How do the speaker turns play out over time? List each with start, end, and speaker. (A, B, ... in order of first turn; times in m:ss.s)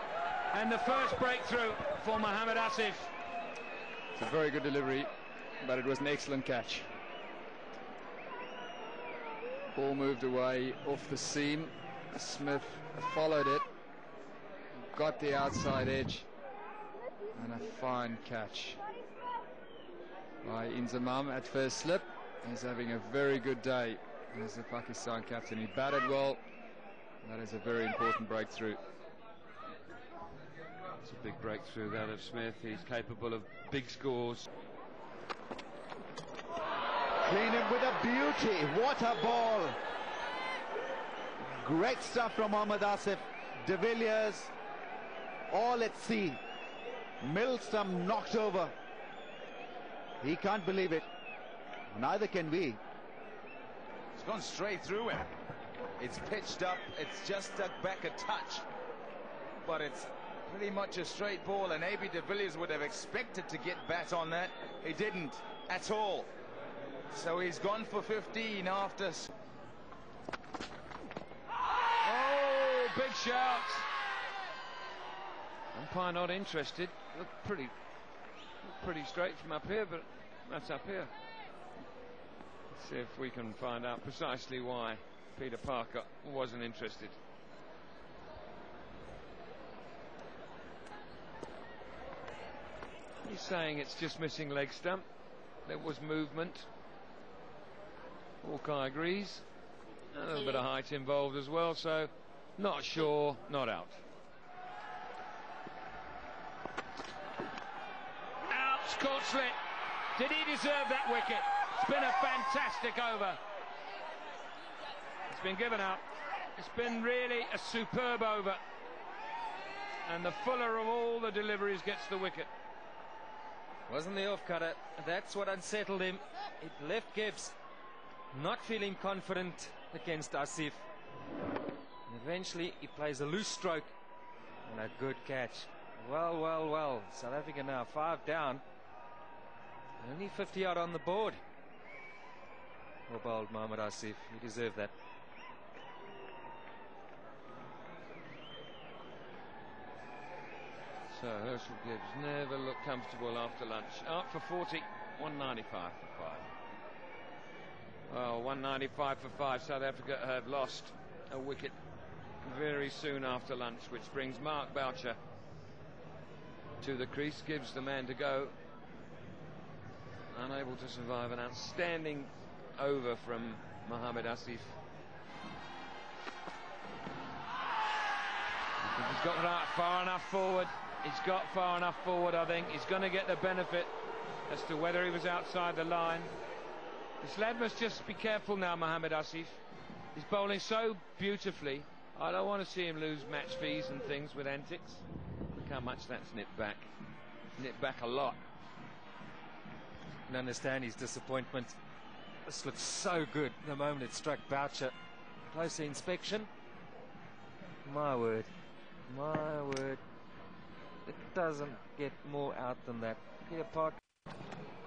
0:00.5-0:03.1 A
0:04.2-0:06.9 B
0:09.8-0:13.7 B
0:14.9-0:16.3 B
0:17.3-0:18.8 B
0:20.4-0:26.4 B
0:27.2-0:28.8 B
0:31.0-0:34.5 A
0:37.2-0:39.8 C
0:41.4-0:44.5 C
0:45.5-0:46.4 C
0:47.2-0:48.7 C
0:50.2-0:51.0 C
0:51.9-0:52.8 C
0:54.2-0:55.3 D
0:56.0-0:58.7 D
0:59.6-1:06.3 D
1:07.1-1:09.3 D
1:12.0-1:13.9 A
1:15.7-1:17.7 A
1:18.6-1:21.1 A
1:22.7-1:27.2 A
1:33.2-1:35.0 A
1:35.6-1:36.7 A
1:38.4-1:39.4 A
1:40.1-1:44.0 A
1:48.5-1:49.6 A
1:50.2-1:53.4 A
1:55.3-1:56.0 A
1:56.6-1:58.6 A
2:00.0-2:02.5 A
2:03.9-2:07.6 E
2:08.3-2:10.8 E
2:12.1-2:13.9 E
2:14.7-2:18.6 E
2:20.0-2:21.4 E
2:23.1-2:24.9 E
2:31.1-2:36.5 A
2:38.1-2:41.8 A
2:42.4-2:45.2 A
2:46.8-2:48.5 A
2:50.3-2:54.8 A
2:58.8-3:03.9 A
3:04.5-3:06.3 A
3:07.2-3:09.6 A
3:10.2-3:16.9 A
3:17.6-3:18.4 A
3:20.3-3:21.8 E
3:22.5-3:24.9 E
3:25.5-3:26.5 E
3:27.8-3:28.5 E
3:29.1-3:30.0 E
3:31.0-3:34.0 E